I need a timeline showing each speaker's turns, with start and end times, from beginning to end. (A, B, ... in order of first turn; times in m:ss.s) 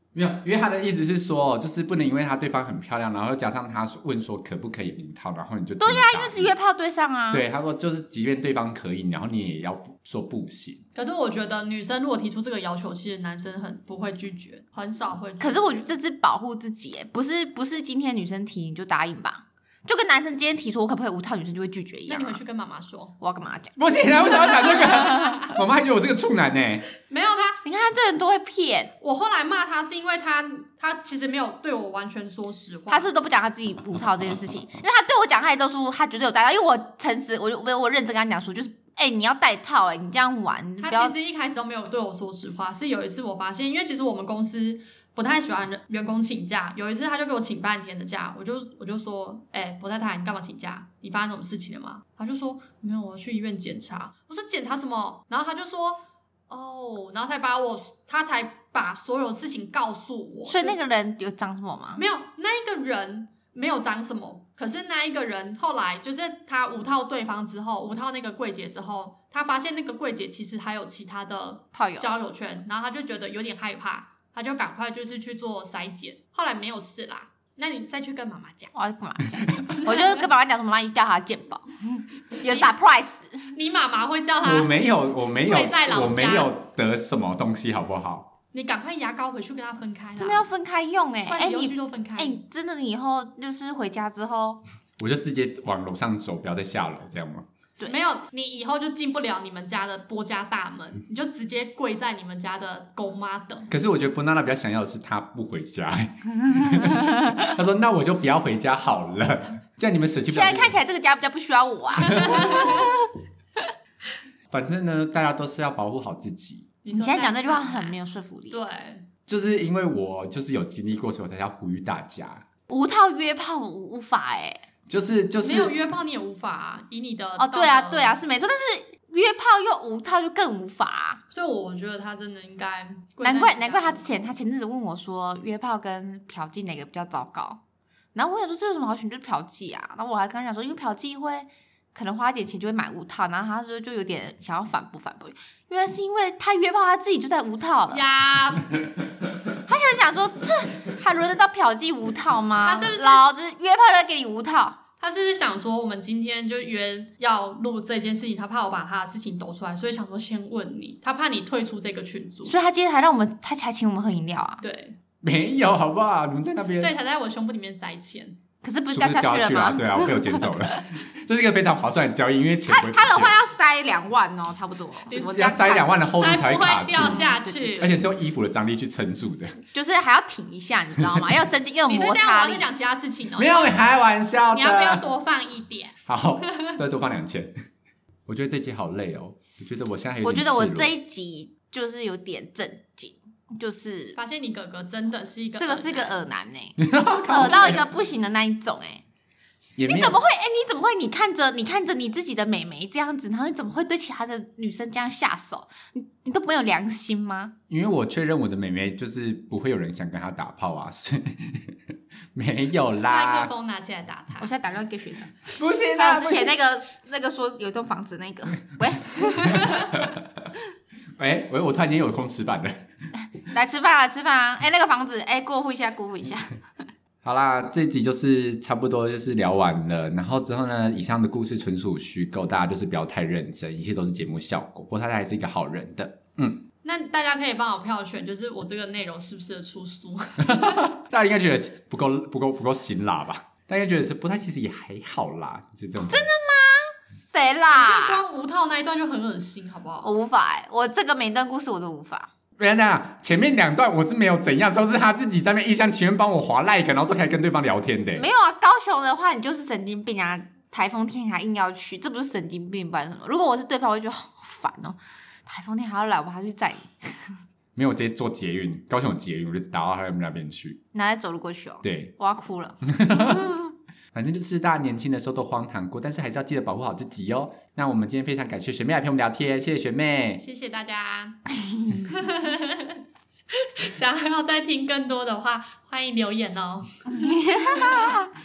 0:00.2-0:06.5 A
0:05.8-0:07.4 B
0:07.3-0:10.8 A
0:11.0-0:15.9 C
0:15.4-0:22.4 B
0:22.1-0:23.1 C
0:23.2-0:23.8 B
0:23.8-0:26.9 A
0:24.6-0:25.5 C
0:27.1-0:27.6 C
0:27.6-0:28.9 B
0:29.0-0:33.1 C
0:32.9-0:41.2 B
0:40.8-1:00.8 C
1:00.5-1:02.0 B
1:02.0-1:18.7 C
1:11.7-1:12.1 B
1:18.7-1:23.5 B
1:23.5-1:24.8 C
1:24.4-1:28.3 A
1:25.4-1:26.5 C
1:28.5-1:30.5 C
1:30.2-1:34.6 B
1:31.3-1:32.4 C
1:35.0-1:37.4 A
1:37.9-1:43.7 C
1:43.7-1:50.8 A
1:46.8-1:47.4 B
1:50.3-1:53.6 B
1:52.1-1:52.7 A
1:54.5-1:56.7 A
1:56.8-1:58.0 C
1:56.9-1:58.6 B
1:58.5-1:59.1 C
1:59.3-2:02.4 A
2:02.7-2:04.6 B
2:04.9-2:05.7 A
2:05.4-2:08.2 C
2:07.4-2:11.2 B
2:11.3-2:14.2 C
2:13.2-2:17.6 B
2:18.2-2:28.0 B
2:27.9-2:28.7 C
2:29.6-2:34.8 B
2:32.6-2:33.4 C
2:35.0-2:42.6 C
2:42.4-2:44.6 B
2:44.6-2:45.0 C
2:45.2-2:46.9 A
2:46.8-2:48.4 C
2:48.6-2:50.9 B
2:48.9-2:53.4 A
2:52.7-2:56.0 B
2:55.1-2:55.5 C
2:55.1-2:57.3 A
2:56.1-2:57.9 C
2:56.9-2:58.0 B
2:57.8-2:59.6 A
2:59.7-3:02.7 B
3:01.9-3:03.9 C
3:03.4-3:05.0 A
3:04.5-3:06.8 C
3:06.1-3:07.5 A
3:08.3-3:10.9 A
3:10.2-3:14.2 B
3:14.2-3:16.2 C
3:15.6-3:16.8 B
3:16.8-3:17.9 A
3:17.3-3:19.0 B
3:19.8-3:20.2 A
3:19.9-3:27.5 B
3:27.7-3:31.8 A
3:32.4-3:33.5 A
3:33.1-3:34.5 C
3:34.4-3:35.4 B
3:35.6-3:36.6 A
3:36.0-3:39.8 B
3:39.5-3:40.2 A
3:41.2-3:42.8 A
3:43.4-3:46.5 B
3:47.2-3:56.6 A
3:56.8-4:00.9 C
4:00.5-4:06.3 A
4:06.1-4:08.2 B
4:07.7-4:10.1 C
4:10.0-4:12.3 B
4:12.6-4:18.3 A
4:18.2-4:27.4 B
4:27.8-4:30.8 A
4:30.9-4:33.7 B
4:31.8-4:32.2 A
4:32.8-4:33.6 A
4:34.1-4:40.4 A
4:40.4-4:43.0 C
4:41.7-4:42.1 B
4:43.5-4:47.4 C
4:47.1-4:48.3 B